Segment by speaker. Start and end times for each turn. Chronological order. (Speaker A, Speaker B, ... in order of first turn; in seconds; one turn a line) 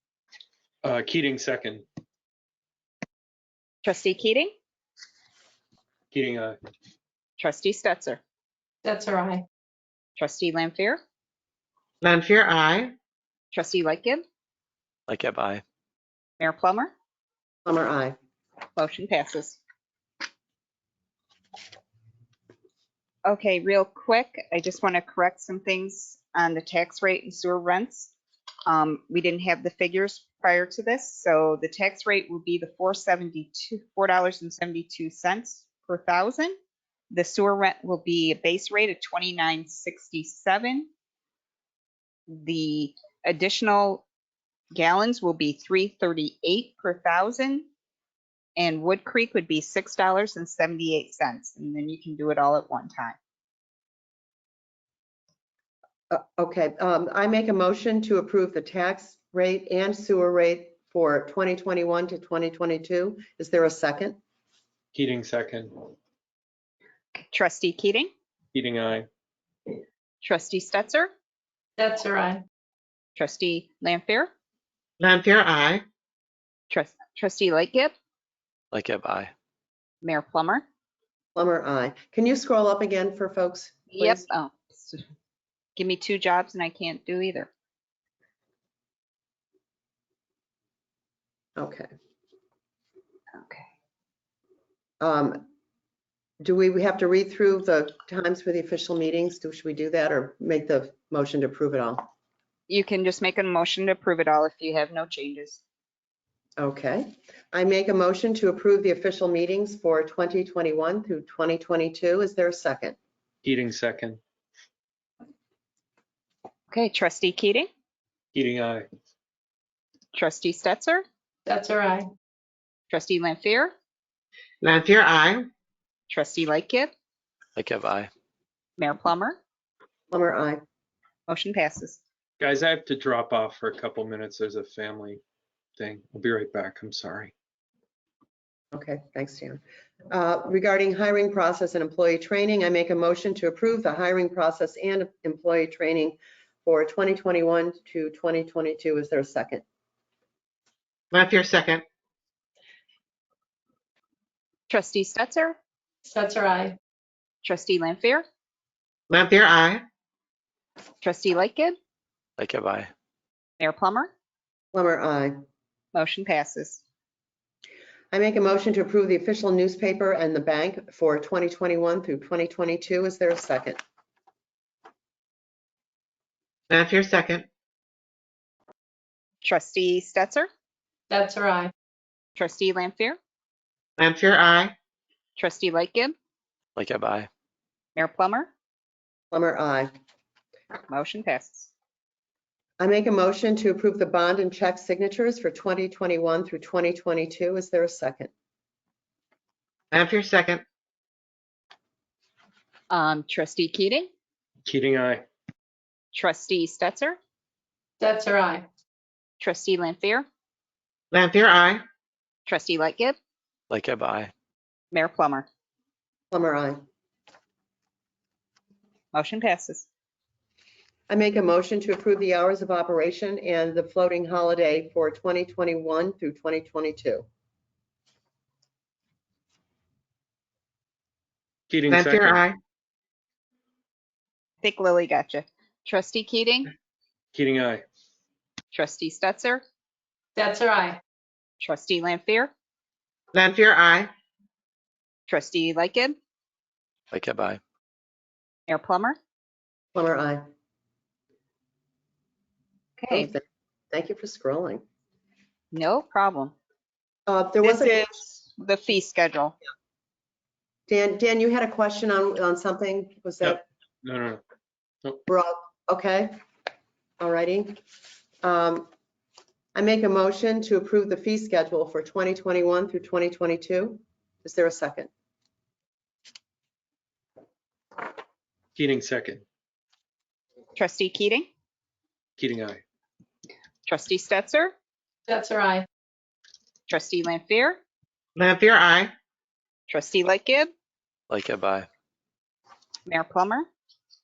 Speaker A: 0.8-1.8
Speaker B: 3.8-4.5
Speaker A: 6.1-6.6
Speaker B: 7.4-8.2
Speaker C: 8.8-9.4
Speaker B: 10.2-11.0
Speaker D: 12.0-12.9
Speaker B: 13.5-14.2
Speaker E: 15.1-15.6
Speaker B: 16.4-16.9
Speaker F: 17.7-18.2
Speaker B: 18.8-19.6
Speaker B: 23.3-28.1
Speaker B: 28.7-36.5
Speaker B: 37.1-40.9
Speaker B: 42.3-44.0
Speaker B: 44.7-47.7
Speaker B: 48.6-53.2
Speaker F: 56.1-64.2
Speaker A: 64.9-65.8
Speaker B: 67.2-68.1
Speaker A: 68.5-69.1
Speaker B: 70.2-71.1
Speaker C: 71.8-72.4
Speaker B: 73.2-74.3
Speaker D: 75.0-75.8
Speaker B: 76.7-77.9
Speaker E: 78.7-79.3
Speaker B: 80.0-80.6
Speaker F: 81.3-84.2
Speaker B: 83.9-85.0
Speaker B: 85.8-87.5
Speaker F: 91.6-91.9
Speaker B: 93.4-93.7
Speaker F: 95.0-95.5
Speaker F: 96.4-102.1
Speaker B: 102.7-105.6
Speaker F: 106.6-113.0
Speaker A: 113.4-114.2
Speaker B: 116.7-117.7
Speaker A: 118.3-118.9
Speaker B: 120.1-121.0
Speaker C: 121.5-122.1
Speaker B: 122.9-123.7
Speaker D: 124.6-125.5
Speaker B: 126.1-126.9
Speaker E: 127.6-128.1
Speaker B: 128.8-129.4
Speaker F: 130.1-130.6
Speaker B: 131.3-132.0
Speaker A: 132.4-135.2
Speaker A: 135.8-137.3
Speaker F: 138.7-149.6
Speaker D: 151.1-151.8
Speaker B: 154.7-155.6
Speaker C: 156.1-156.8
Speaker B: 157.4-158.2
Speaker D: 159.1-159.8
Speaker B: 161.0-161.8
Speaker E: 162.4-162.9
Speaker B: 163.6-164.1
Speaker F: 164.7-165.4
Speaker B: 165.9-166.8
Speaker F: 168.1-173.8
Speaker D: 176.7-177.5
Speaker B: 179.4-180.5
Speaker C: 181.1-181.7
Speaker B: 182.4-183.2
Speaker D: 184.0-184.8
Speaker B: 185.4-186.1
Speaker E: 186.8-187.3
Speaker B: 188.0-188.5
Speaker F: 189.3-189.9
Speaker B: 190.9-191.7
Speaker F: 192.8-198.3
Speaker D: 199.9-200.6
Speaker B: 202.9-204.1
Speaker A: 204.7-205.2
Speaker B: 206.1-207.2
Speaker C: 208.0-208.7
Speaker B: 209.4-210.2
Speaker D: 211.1-211.8
Speaker B: 212.5-213.2
Speaker E: 213.7-214.3
Speaker B: 214.9-215.5
Speaker F: 216.3-216.8
Speaker B: 219.1-219.9
Speaker F: 221.1-227.2
Speaker A: 231.7-232.4
Speaker D: 231.9-232.6
Speaker B: 234.6-236.7
Speaker A: 237.3-237.8
Speaker B: 238.7-239.6
Speaker C: 240.4-241.0
Speaker B: 241.6-242.5
Speaker D: 243.3-244.1
Speaker B: 245.3-246.2
Speaker E: 247.1-247.6
Speaker B: 248.7-249.2
Speaker F: 249.9-250.5
Speaker B: 253.0-253.3
Speaker F: 253.1-254.8
Speaker B: 255.7-256.5
Speaker F: 257.3-258.0
Speaker B: 257.6-259.6
Speaker F: 260.9-263.6
Speaker A: 263.4-264.4
Speaker F: 265.3-266.4
Speaker F: 267.2-267.8
Speaker F: 268.4-268.9
Speaker F: 269.8-275.1
Speaker A: 278.8-279.4
Speaker B: 280.8-281.5
Speaker A: 282.4-282.8
Speaker B: 283.9-284.7
Speaker C: 285.3-285.9
Speaker B: 286.9-287.8
Speaker D: 288.4-289.1
Speaker B: 289.9-290.7
Speaker E: 291.3-291.9
Speaker B: 293.1-293.7